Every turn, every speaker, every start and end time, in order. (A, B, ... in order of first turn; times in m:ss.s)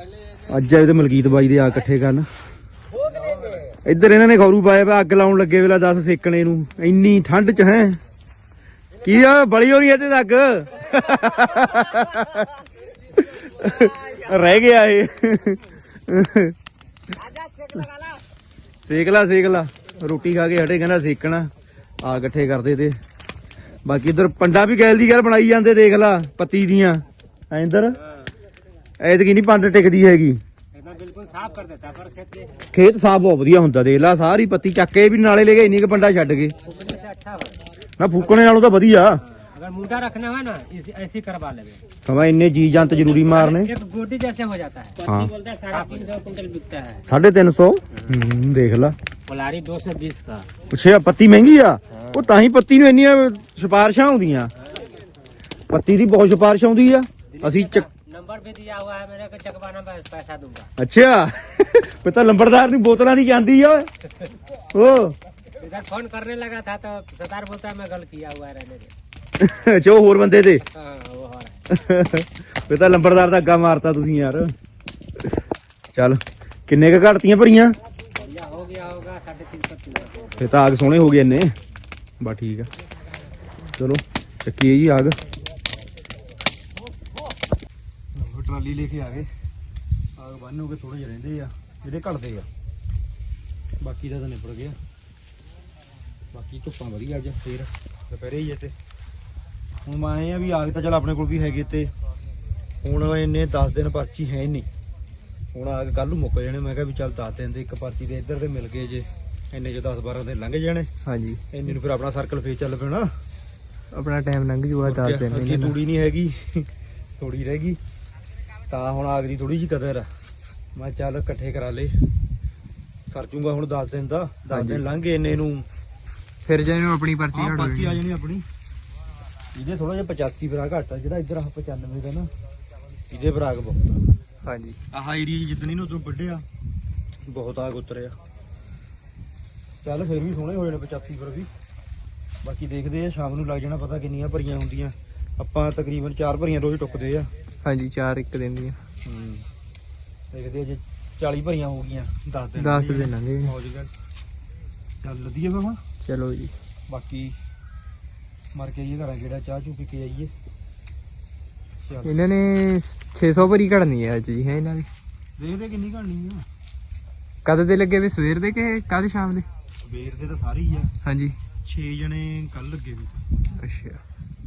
0:00.5-0:02.3 A
0:03.8-0:08.0 A
0:09.0-0:12.5 A
0:13.2-0:16.5 A
0:18.8-0:21.5 A
0:22.0-0:23.0 A
0:23.8-0:28.0 A
0:29.0-0:30.4 A
0:30.7-0:32.6 B
0:32.7-0:36.5 A
0:36.6-0:37.6 B
0:38.0-0:39.2 A
0:39.3-0:41.8 B
0:42.0-0:43.7 A
0:43.0-0:47.0 B
0:45.0-0:45.3 A
0:47.1-0:49.0 A
0:49.3-0:50.5 B
0:50.7-0:54.5 A
0:55.7-0:57.9 A
0:57.4-1:00.7 B
1:00.8-1:03.9 A
1:04.7-1:05.2 A
1:05.6-1:08.9 B
1:09.4-1:10.6 A
1:10.7-1:11.6 B
1:11.7-1:14.5 A
1:15.9-1:17.8 A
1:18.2-1:20.4 B
1:20.4-1:21.5 A
1:22.2-1:22.7 A
1:23.8-1:25.2 A
1:28.1-1:29.3 A
1:30.2-1:32.5 A
1:33.8-1:34.8 A
1:36.3-1:38.7 A
1:39.8-1:41.9 A
1:42.8-1:44.7 A
1:45.5-1:50.9 A
1:51.0-1:51.4 C
1:51.5-1:53.1 A
1:53.9-1:55.8 C
1:54.8-1:56.7 A
1:57.2-1:57.8 A
1:58.7-2:00.1 A
2:00.7-2:02.0 A
2:03.1-2:05.6 A
2:04.5-2:04.8 C
2:06.4-2:08.0 C
2:07.3-2:08.4 A
2:09.5-2:12.3 A
2:13.1-2:14.0 A
2:14.4-2:14.8 C
2:14.9-2:16.4 A
2:17.3-2:18.1 A
2:19.8-2:21.5 A
2:22.4-2:27.3 A
2:27.6-2:28.8 C
2:29.0-2:29.5 A
2:30.3-2:33.9 A
2:32.6-2:33.5 C
2:35.0-2:35.8 A
2:36.0-2:36.5 C
2:36.9-2:37.4 A
2:38.5-2:40.3 A
2:41.8-2:42.2 A
2:42.0-2:44.9 C
2:45.4-2:46.4 A
2:47.4-2:49.5 C
2:49.8-2:50.9 A
2:51.0-2:51.4 C
2:51.6-2:53.3 A
2:53.6-2:54.0 C